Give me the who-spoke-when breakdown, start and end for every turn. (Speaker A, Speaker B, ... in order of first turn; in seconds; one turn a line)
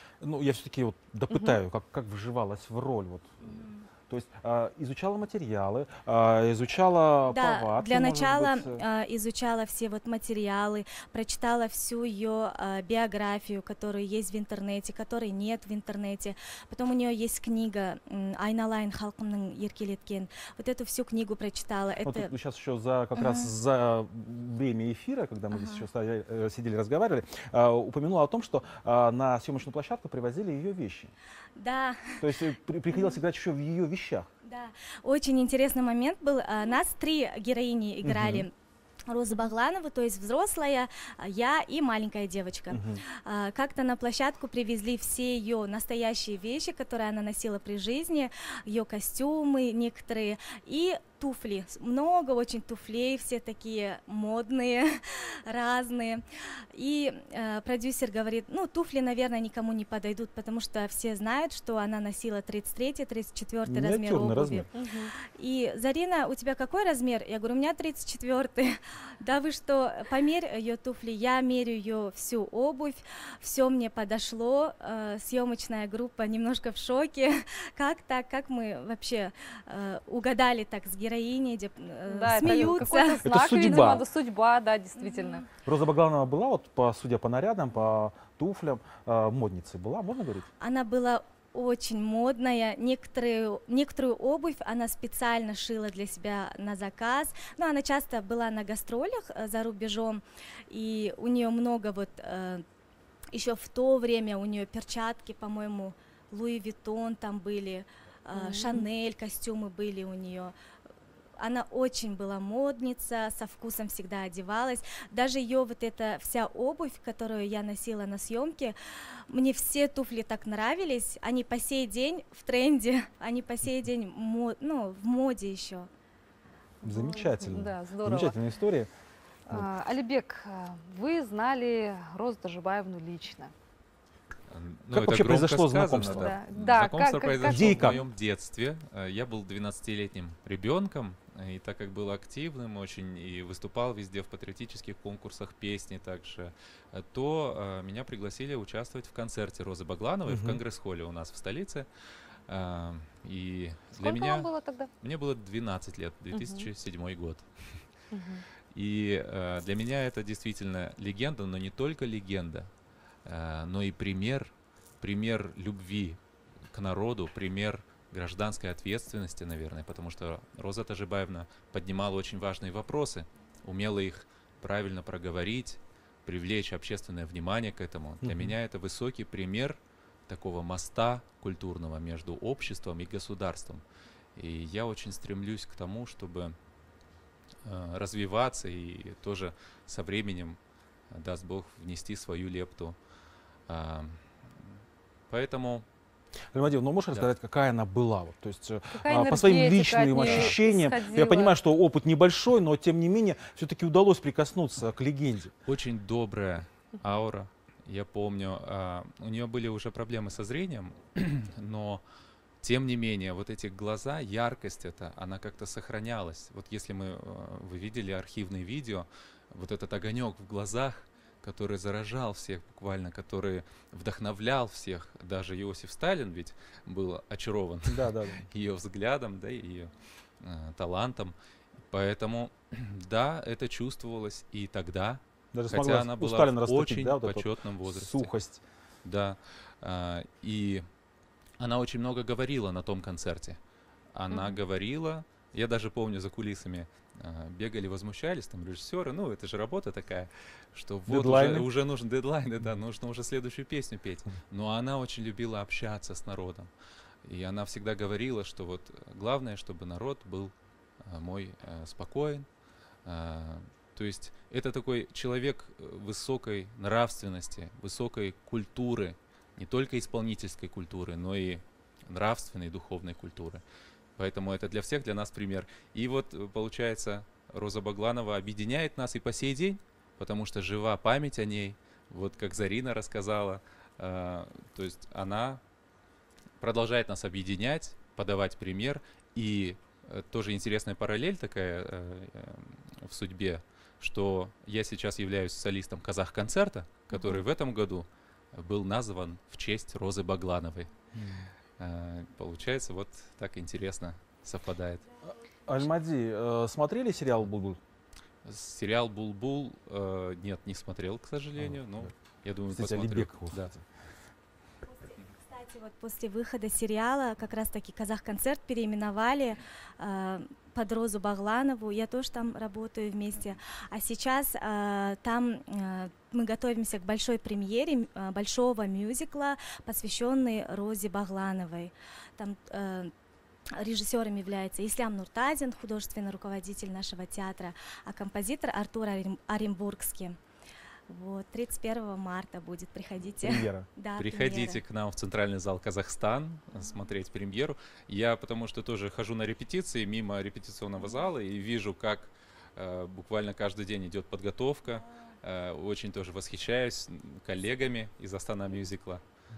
Speaker A: 0.2-8.8
Speaker B: 3.5-3.8
Speaker B: 7.3-22.3
Speaker A: 22.0-31.1
Speaker B: 23.1-23.5
Speaker B: 25.5-25.8
Speaker B: 31.6-32.2
Speaker A: 32.2-34.3
Speaker B: 32.9-33.2
Speaker B: 34.4-38.5
Speaker A: 38.0-38.5
Speaker B: 39.1-56.2
Speaker A: 42.7-43.0
Speaker B: 56.7-64.7
Speaker A: 63.6-64.7
Speaker C: 64.7-65.1
Speaker B: 65.2-84.0
Speaker C: 82.1-85.4
Speaker A: 82.4-84.0
Speaker B: 85.0-85.5
Speaker A: 85.6-90.5
Speaker B: 90.6-102.6
Speaker B: 103.3-110.5
Speaker C: 108.3-108.9
Speaker B: 111.4-118.7
Speaker B: 119.3-125.9
Speaker C: 126.8-128.4
Speaker A: 126.8-128.9
Speaker C: 129.5-133.5
Speaker D: 134.5-151.9
Speaker A: 134.9-136.3
Speaker C: 136.0-137.9
Speaker A: 137.4-138.1
Speaker A: 150.2-150.6
Speaker D: 152.5-157.9
Speaker C: 154.0-154.9
Speaker C: 156.3-156.7
Speaker C: 158.1-158.4
Speaker D: 158.7-162.7
Speaker D: 163.2-166.2
Speaker D: 166.7-183.8
Speaker A: 178.2-178.6
Speaker D: 184.3-186.5
Speaker D: 187.6-190.6
Speaker D: 191.1-193.0
Speaker D: 193.7-194.7
Speaker D: 195.3-195.8
Speaker A: 196.5-205.5
Speaker C: 198.9-201.5
Speaker D: 200.2-200.6
Speaker D: 205.6-212.0
Speaker D: 212.6-231.3
Speaker A: 227.9-228.4
Speaker D: 231.9-238.3
Speaker A: 235.5-238.6
Speaker D: 239.0-240.8
Speaker D: 241.6-243.6
Speaker D: 244.1-256.7
Speaker C: 244.3-244.6
Speaker A: 251.1-251.7
Speaker D: 257.2-262.4
Speaker D: 263.0-273.6
Speaker D: 274.2-285.6
Speaker D: 286.6-300.9
Speaker C: 297.1-297.4
Speaker A: 301.1-301.5
Speaker D: 301.8-305.0
Speaker A: 305.7-307.8
Speaker D: 308.4-313.7
Speaker A: 312.7-313.8
Speaker B: 314.9-333.1
Speaker B: 333.8-340.4
Speaker B: 341.1-344.8
Speaker A: 343.4-343.9
Speaker D: 344.2-359.2